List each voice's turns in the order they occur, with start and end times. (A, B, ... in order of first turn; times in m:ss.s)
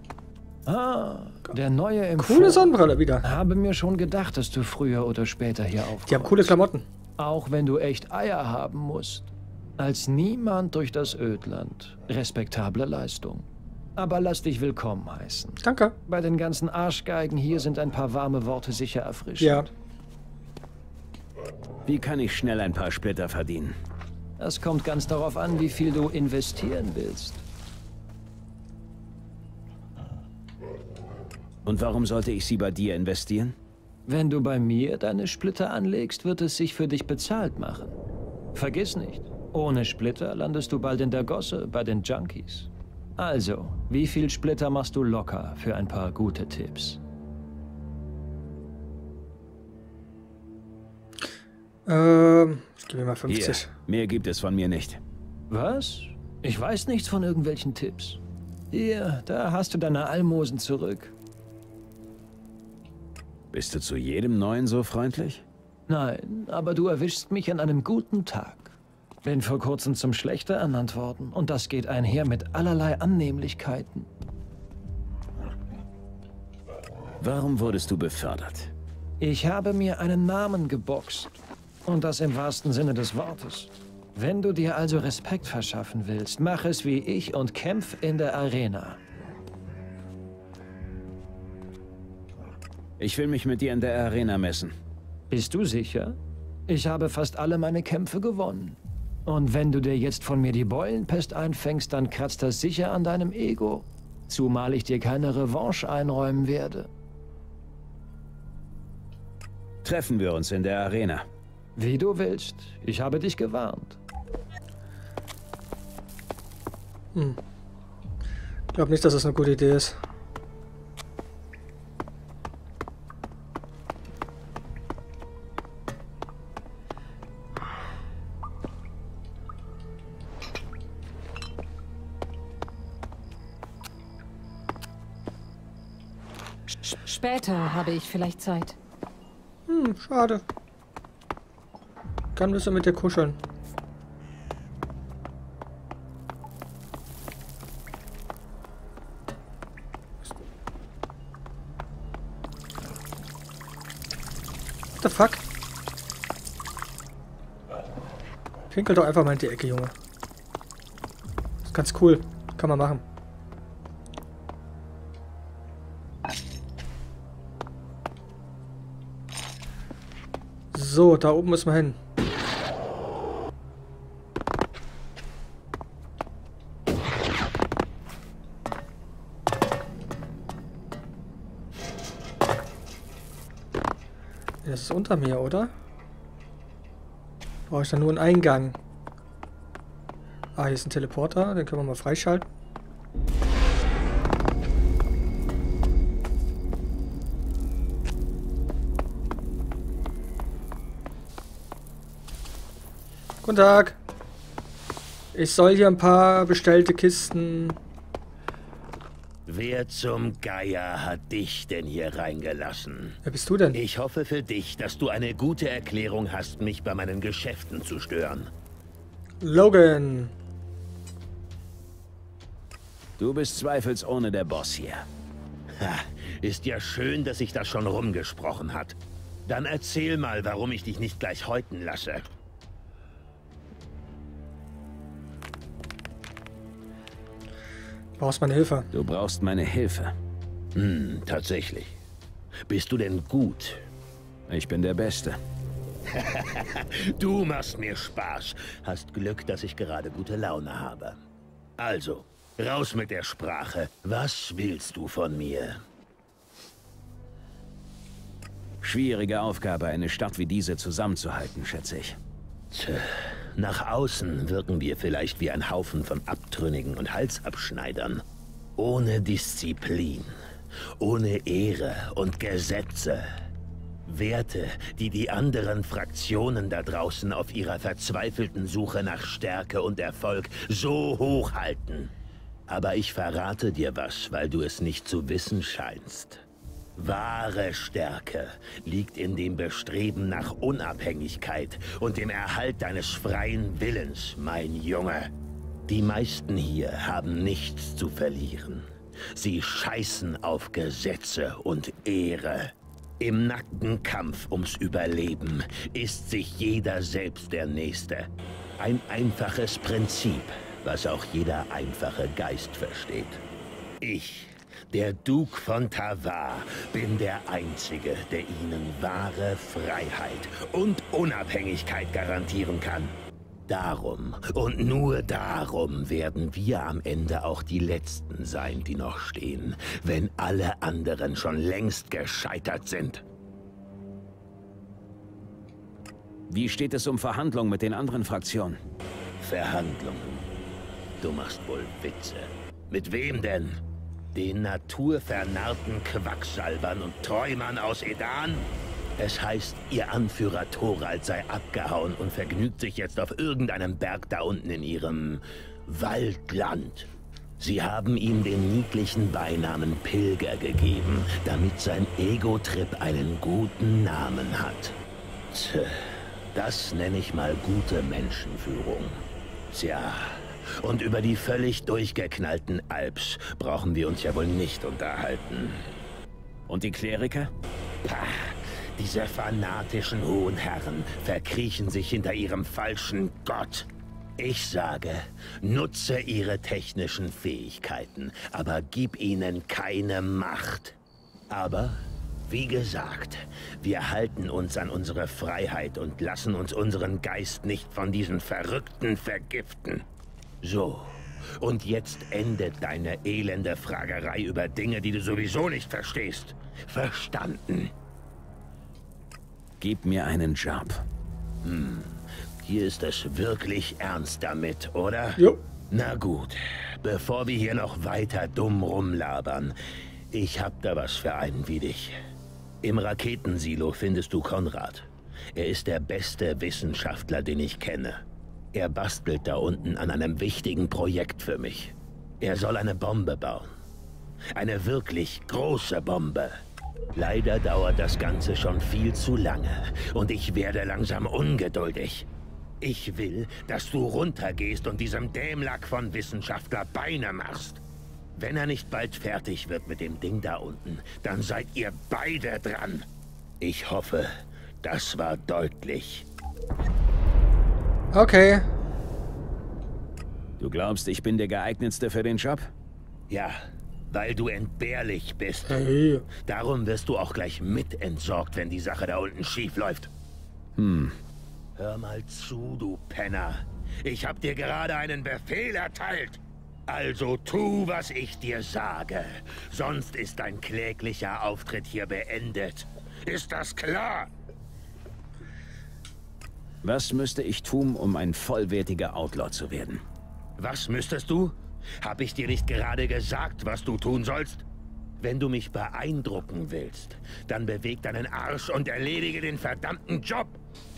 0:00.7-0:06.6 A
0:02.2-0:03.2 B
0:06.1-0:06.8 B
0:07.2-0:19.7 A
0:15.6-0:16.0 B
0:19.4-0:19.7 B
0:21.9-0:23.8 C
0:24.4-0:27.4 A
0:31.6-0:33.6 C
0:34.1-0:38.0 A
0:38.5-0:47.0 A
0:51.9-0:53.7 B
0:53.3-0:55.0 C
0:55.5-0:58.2 A
0:58.7-1:01.1 A
1:03.5-1:05.4 C
1:05.9-1:08.7 A
1:09.2-1:14.1 A
1:17.2-1:18.7 C
1:19.2-1:29.0 A
1:33.0-1:34.7 C
1:35.3-1:36.2 A
1:36.7-1:46.9 A
1:49.8-1:51.2 C
1:51.8-1:54.0 A
1:58.7-2:00.0 B
2:16.8-2:18.8 D
2:19.7-2:20.4 B
2:22.4-2:23.4 B
2:35.0-2:35.4 B
2:38.7-2:39.9 B
2:41.7-2:43.0 B
2:50.7-2:52.0 B
3:04.6-3:05.7 B
3:07.7-3:08.8 B
3:10.6-3:12.5 B
3:23.4-3:24.0 B
3:25.3-3:27.8 B
3:29.5-3:33.2 E
3:33.2-3:33.8 B
3:33.7-3:38.5 E
3:39.4-3:40.3 B
3:43.2-3:45.0 C
3:45.8-3:52.3 E
3:58.2-3:58.9 B
3:58.9-4:00.1 C
4:00.8-4:02.0 E
4:02.7-4:03.8 E
4:04.5-4:05.4 C
4:06.1-4:11.2 E
4:11.8-4:15.8 E
4:18.8-4:22.2 C
4:22.7-4:28.2 E
4:28.8-4:30.4 E
4:31.0-4:33.3 E
4:34.1-4:42.1 E
4:42.7-4:46.4 E
4:47.0-4:55.3 E
4:55.9-5:13.4 E
5:14.0-5:23.2 E
5:23.7-5:33.2 E
5:36.5-5:38.8 C
5:39.4-5:40.5 E
5:41.2-5:43.8 E
5:44.4-5:57.1 E
5:57.6-6:05.0 E
6:05.5-6:15.9 E
6:16.7-6:17.5 C
6:18.0-6:31.0 E
6:31.5-6:40.1 E
6:40.6-6:47.9 E
6:49.8-6:51.0 C
6:51.6-6:59.8 E
7:00.3-7:02.2 E
7:02.8-7:08.2 E
7:08.7-7:13.7 E
7:14.6-7:16.6 E
7:17.2-7:22.3 E
7:22.8-7:27.8 E
7:28.4-7:33.1 E
7:33.6-7:34.3 E
7:34.8-7:36.3 E
7:38.1-7:38.7 B
7:40.6-7:42.7 C
7:43.3-7:43.6 E
7:44.1-7:45.7 E
7:45.7-7:46.2 B
7:46.5-7:50.1 E
7:50.8-7:51.2 C
7:51.8-8:04.3 E
8:06.8-8:10.0 C
8:10.6-8:14.7 E
8:15.2-8:20.6 E